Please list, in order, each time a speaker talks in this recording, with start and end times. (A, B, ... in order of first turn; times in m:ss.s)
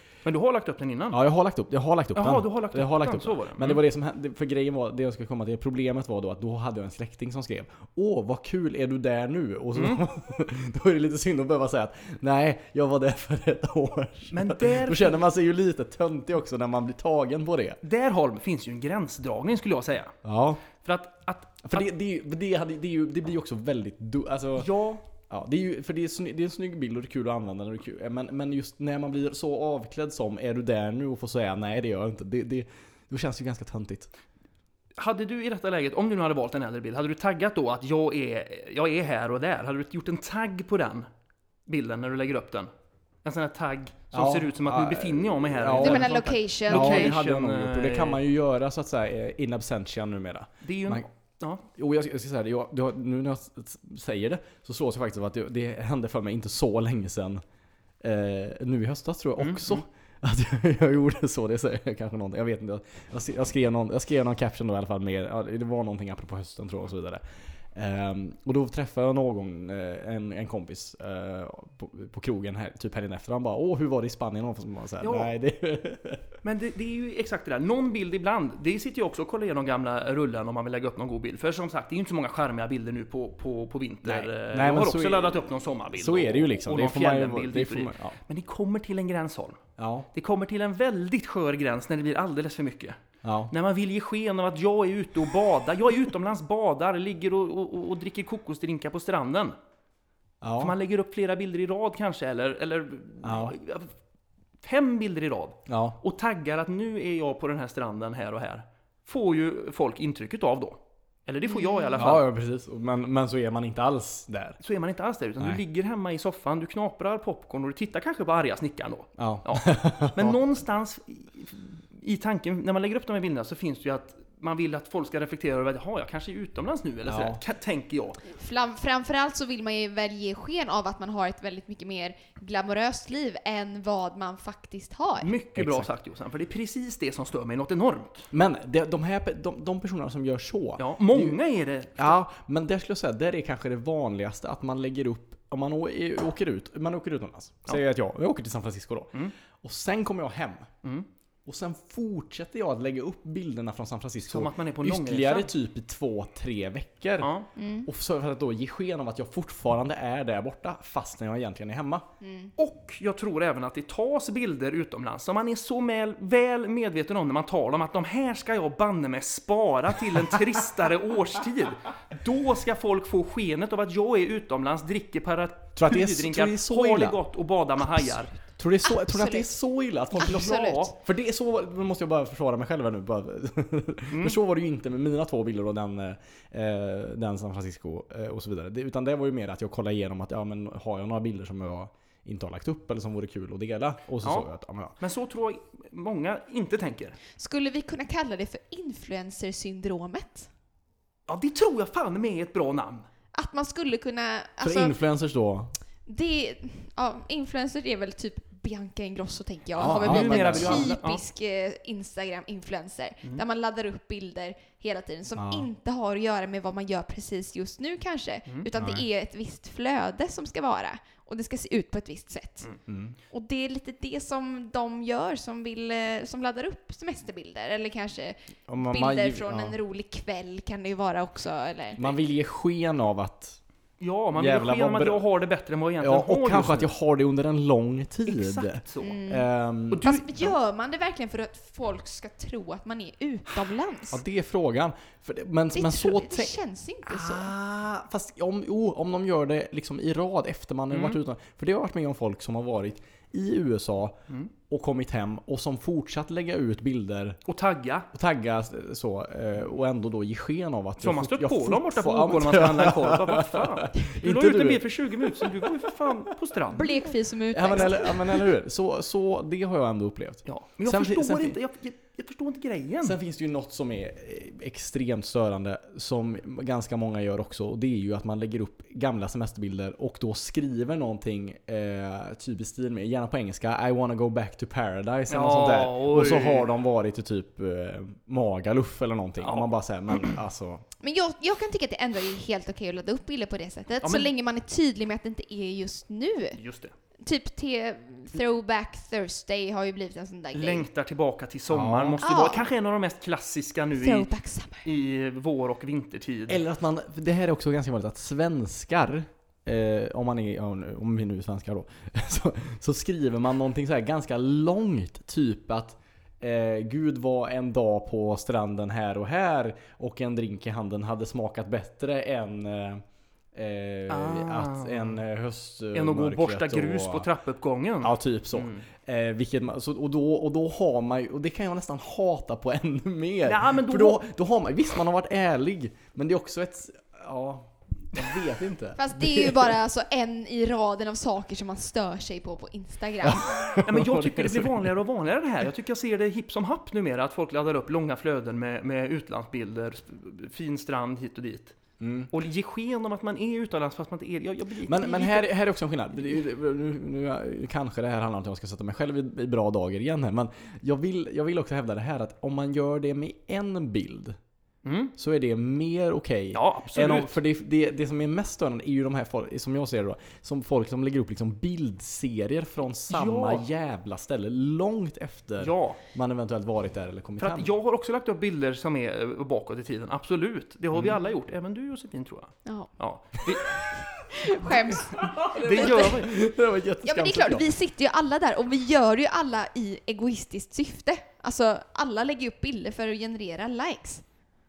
0:00.2-0:01.2 A
0:01.1-0:17.8 B
0:02.2-0:03.8 A
0:09.8-0:10.0 A
0:14.3-0:15.2 A
0:17.8-0:20.2 A
0:20.2-0:20.6 B
0:20.8-0:21.9 A
0:21.6-0:24.8 B
0:24.6-0:25.0 A
0:25.3-0:34.1 B
0:35.0-0:41.1 A
0:41.7-0:42.7 A
0:43.2-0:48.2 A
0:44.1-0:51.1 B
0:45.8-0:47.2 C
0:50.6-0:51.6 A
0:51.7-0:57.4 B
0:58.0-1:07.2 B
0:59.4-0:59.8 A
1:07.7-1:16.4 B
1:15.0-1:15.3 A
1:16.4-1:29.6 A
1:24.0-1:28.2 B
1:29.8-1:30.1 B
1:30.1-1:33.0 A
1:33.2-1:33.5 B
1:33.5-1:39.6 A
1:40.4-1:40.8 B
1:40.6-1:43.9 A
1:43.2-1:43.6 B
1:44.6-1:52.2 A
1:45.7-1:46.0 B
1:51.5-1:52.1 C
1:52.0-1:54.6 B
1:54.6-2:08.2 A
1:59.2-2:00.4 B
2:07.1-2:07.4 B
2:08.3-2:15.3 C
2:15.2-2:18.3 A
2:15.6-2:15.9 B
2:18.3-2:21.4 B
2:20.8-2:22.2 A
2:22.0-2:30.7 B
2:31.4-2:42.1 B
2:34.3-2:35.5 A
2:37.2-2:37.5 A
2:37.6-2:37.9 C
2:42.2-2:42.5 C
2:42.6-2:58.4 A
2:55.8-2:57.2 B
2:58.0-3:15.0 B
2:58.8-2:59.6 C
3:00.1-3:00.9 C
3:00.2-3:00.9 A
3:04.1-3:04.4 A
3:14.2-3:14.5 A
3:15.0-3:17.2 A
3:17.4-3:20.5 C
3:21.3-3:23.1 A
3:23.3-3:25.0 C
3:24.6-3:25.8 B
3:26.1-3:42.7 C
3:29.8-3:31.0 B
3:29.8-3:31.2 A
3:35.4-3:35.7 B
3:38.8-3:39.1 B
3:42.9-3:43.2 B
3:43.3-3:52.1 C
3:48.7-3:49.8 B
3:52.0-3:53.6 B
3:54.0-3:56.9 A
3:54.4-3:55.2 B
3:56.0-4:00.4 B
3:58.3-3:59.2 A
3:59.0-3:59.5 C
3:59.9-4:00.4 A
4:00.0-4:04.2 C
4:04.1-4:17.4 B
4:05.7-4:07.5 C
4:10.9-4:11.2 A
4:17.5-4:18.1 A
4:18.1-4:26.1 B
4:21.0-4:26.9 A
4:26.7-4:28.5 C
4:27.5-4:31.6 B
4:30.4-4:33.2 A
4:33.0-4:50.8 B
4:45.3-4:46.7 A
4:49.4-4:50.2 A
4:51.0-4:56.6 C
4:54.0-4:54.3 A
4:56.6-4:56.9 A
4:57.2-5:00.9 C
5:00.5-5:04.3 A
5:01.7-5:02.2 B
5:02.2-5:02.7 C
5:04.0-5:04.9 C
5:04.8-5:06.6 A
5:06.5-5:27.3 B
5:24.1-5:25.2 A
5:25.9-5:28.8 A
5:28.0-5:39.8 B
5:33.4-5:34.2 A
5:39.0-5:43.6 C
5:43.2-5:44.9 B
5:43.8-5:51.8 A
5:52.0-5:52.3 B
5:52.3-5:55.5 A
5:54.8-6:04.4 B
6:04.8-6:05.1 A
6:05.2-6:17.7 B
6:06.5-6:07.4 A
6:13.1-6:13.7 A
6:15.6-6:16.0 A
6:17.4-6:23.8 A
6:22.6-6:22.9 C
6:23.5-6:24.0 B
6:24.3-6:26.3 C
6:24.6-6:27.7 B
6:25.6-6:26.3 A
6:27.0-6:34.2 C